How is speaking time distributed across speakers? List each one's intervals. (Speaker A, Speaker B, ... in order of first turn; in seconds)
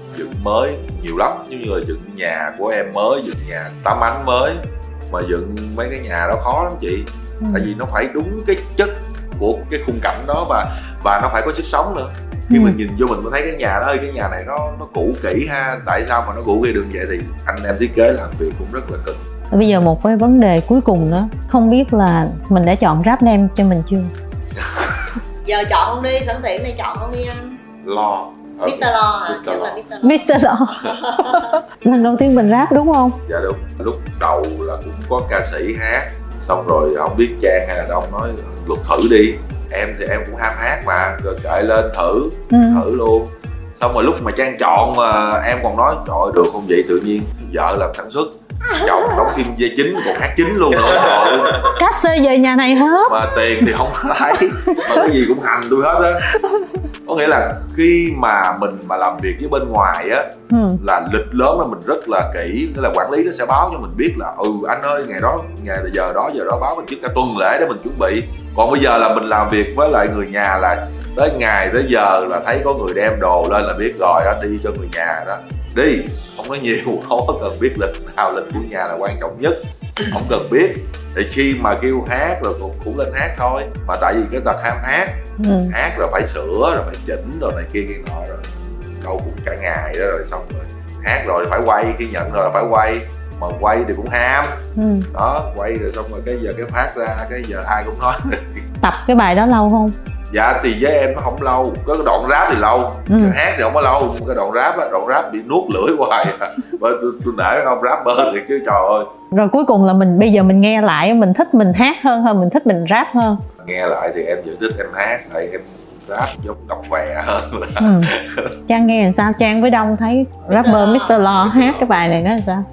Speaker A: 0.1-19.2, 24.6-25.2, 27.8-29.8, 33.3-51.7, 53.1-56.3, 57.0-98.6, 100.3-109.1, 113.6-118.6
Speaker B: 7.4-7.7, 12.5-12.8, 19.5-24.1, 30.0-33.2, 42.5-42.8, 51.6-53.7, 56.4-56.7, 60.5-60.8, 85.4-85.7, 94.8-95.1, 98.8-100.0, 103.1-103.4, 109.3-113.4, 117.8-118.1, 118.7-122.6
Speaker C: 25.4-27.6, 28.6-31.6, 48.6-49.3, 120.5-121.2